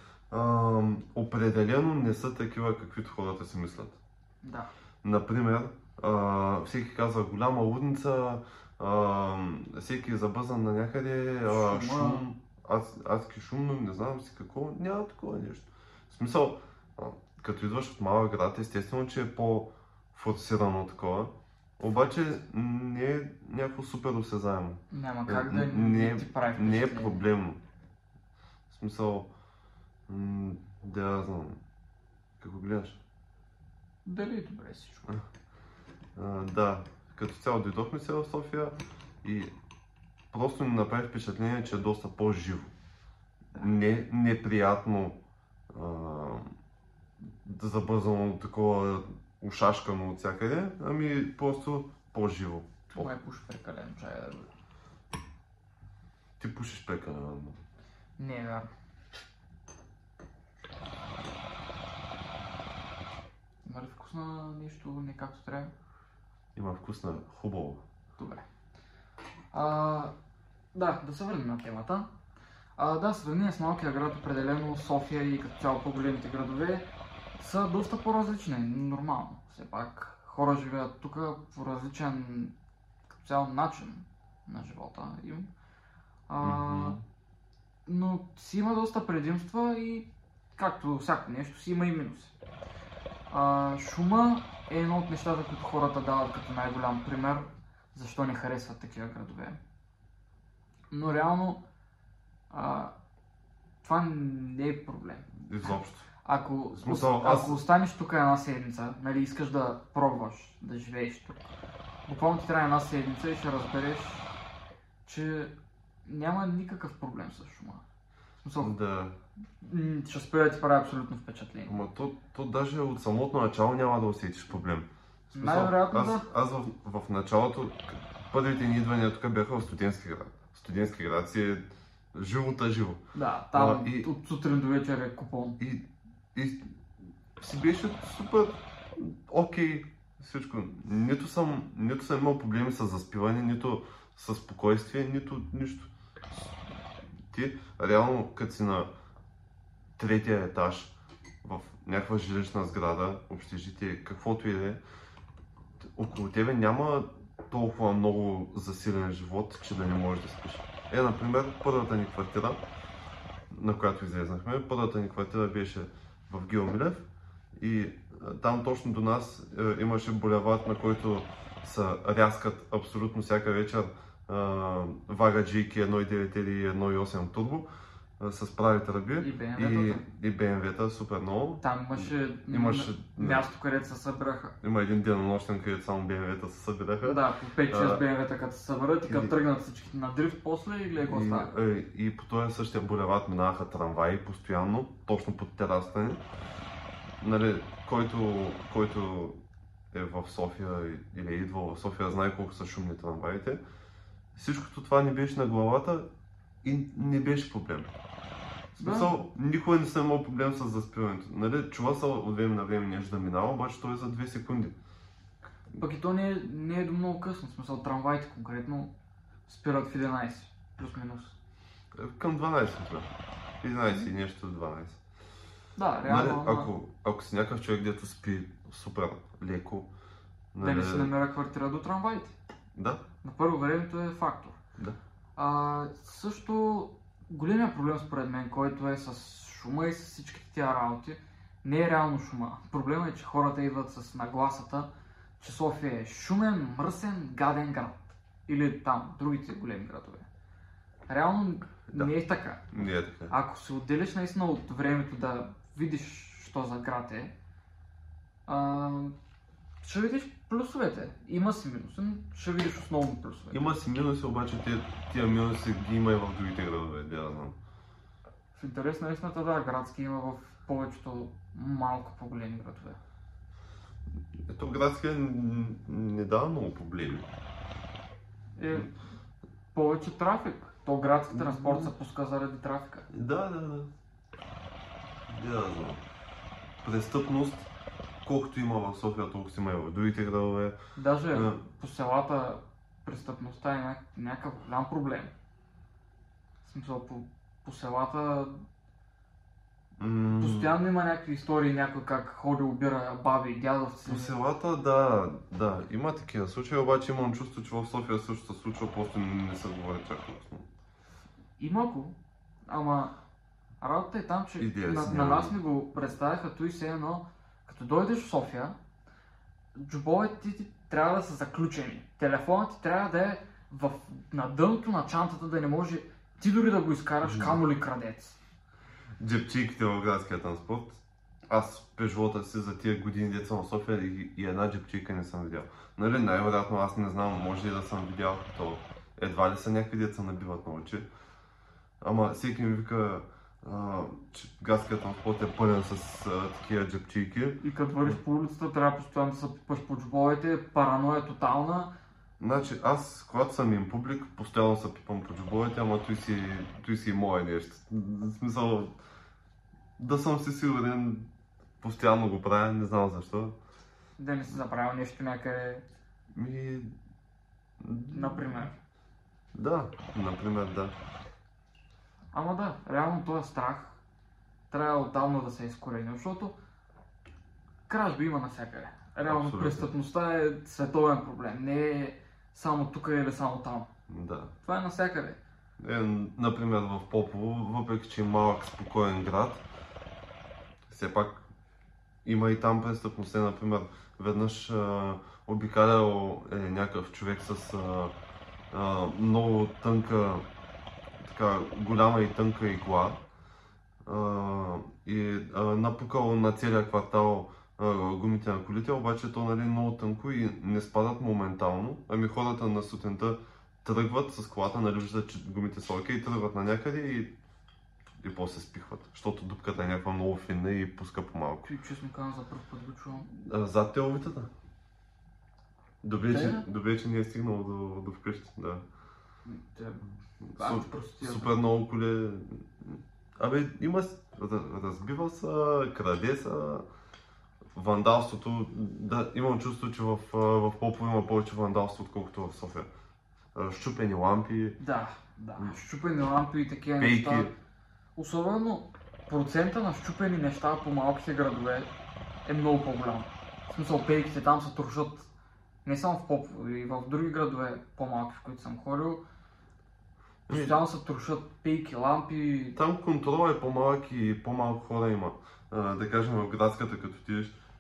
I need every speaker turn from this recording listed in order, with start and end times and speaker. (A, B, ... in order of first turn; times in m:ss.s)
0:00.3-0:04.0 A
0:04.4-0:04.7 B
0:05.0-0:27.6 A
0:11.5-0:12.2 B
0:24.9-0:27.3 B
0:28.7-0:29.3 A
0:30.1-0:31.6 A
0:32.4-0:33.0 A
0:34.0-0:35.1 B
0:36.2-0:39.5 A
0:40.3-0:42.7 A
0:43.5-0:45.2 A
0:45.7-0:46.5 A
0:47.4-0:53.1 A
0:52.9-0:54.5 B
0:56.4-0:57.6 A
0:58.2-0:58.7 B
1:03.6-1:05.7 B
1:06.6-1:07.8 A
1:08.2-1:08.5 B
1:09.5-1:10.1 B
1:10.7-1:12.1 B
1:12.8-1:16.9 B
1:17.4-1:22.5 B
1:23.1-1:25.5 B
1:26.3-1:27.0 B
1:26.4-1:27.0 A
1:27.9-1:32.3 B
1:33.3-1:39.6 B
1:40.9-1:41.6 B
1:42.5-1:42.9 B
1:43.8-1:45.3 B
1:45.3-1:46.1 A
1:46.2-1:51.4 B
1:46.7-1:47.6 A
1:52.1-1:54.3 B
1:55.0-1:55.5 B
1:56.0-1:57.8 B
1:58.4-1:58.7 B
1:58.6-1:59.2 A
1:59.6-2:01.8 B
2:01.7-2:13.0 A
2:05.3-2:06.3 B
2:13.1-2:15.6 B
2:13.5-2:14.1 A
2:15.6-2:16.6 A
2:17.4-2:26.4 A
2:27.3-2:28.9 A
2:30.0-2:34.8 A
2:36.0-2:42.6 A
2:43.5-2:47.0 A
2:47.6-2:57.7 A
2:58.2-3:03.5 A
2:59.2-3:00.0 B
3:01.6-3:04.6 B
3:04.6-3:08.0 A
3:07.0-3:11.5 B
3:09.1-3:09.4 A
3:11.0-3:16.2 A
3:17.2-3:19.4 A
3:19.9-3:23.6 A
3:24.4-3:26.1 A
3:26.6-3:27.9 A
3:28.8-3:34.8 A
3:28.8-3:29.2 B
3:35.8-3:38.9 B
3:39.5-3:41.4 B
3:41.9-3:43.1 A
3:43.6-3:45.0 A
3:45.8-3:46.7 B
3:46.0-3:49.9 A
3:50.5-3:51.1 A
3:50.6-3:52.4 B
3:52.8-3:53.0 A
3:53.2-3:54.6 B
3:55.4-4:10.3 B
4:11.1-4:12.8 B
4:12.7-4:13.3 A
4:13.3-4:17.3 B
4:18.5-4:19.1 B
4:19.8-4:23.7 B
4:23.5-4:27.6 A
4:28.6-4:33.0 B
4:34.5-4:37.3 A
4:38.6-4:38.9 B
4:39.7-4:43.1 B
4:41.3-4:41.9 A
4:43.1-4:43.9 A
4:45.3-4:46.0 A
4:46.8-4:47.7 A
4:48.2-4:50.8 A
4:51.0-4:55.3 B
4:51.3-4:51.6 A
4:56.6-4:58.6 B
5:00.0-5:00.8 A
5:00.4-5:04.3 B
5:04.1-5:10.7 A
5:11.6-5:13.1 B
5:13.8-5:18.8 B
5:14.6-5:15.6 A
5:19.8-5:28.4 B
5:27.2-5:27.6 A
5:29.2-5:41.1 A
5:42.0-5:48.2 A
5:47.6-5:51.9 B
5:52.4-5:58.9 A
6:00.0-6:01.3 A
6:01.8-6:03.6 A
6:04.2-6:05.8 B
6:06.3-6:06.9 A
6:07.8-6:08.7 A
6:08.1-6:08.8 B
6:09.5-6:10.9 A
6:12.3-6:14.0 B
6:14.7-6:16.6 B
6:17.9-6:23.9 B
6:19.2-6:19.9 A
6:24.1-6:24.5 A
6:24.6-6:25.4 B
6:25.8-6:29.6 A
6:30.9-6:31.4 A
6:32.2-6:38.1 A
6:38.7-6:40.5 A
6:41.2-6:43.2 A
6:44.1-6:57.3 A
6:58.2-7:01.7 A
7:01.6-7:03.3 B
7:03.3-7:04.5 A
7:06.0-7:08.8 A
7:06.3-7:06.7 B
7:09.4-7:10.0 B
7:10.4-7:16.9 A
7:10.6-7:11.5 B
7:17.8-7:22.9 A
7:23.6-7:24.8 A
7:24.8-7:27.5 B
7:27.0-7:27.5 A
7:28.2-7:31.9 B
7:32.4-7:35.3 B
7:35.8-7:39.2 B
7:40.5-7:40.8 A
7:40.5-7:42.8 B
7:42.8-7:47.6 A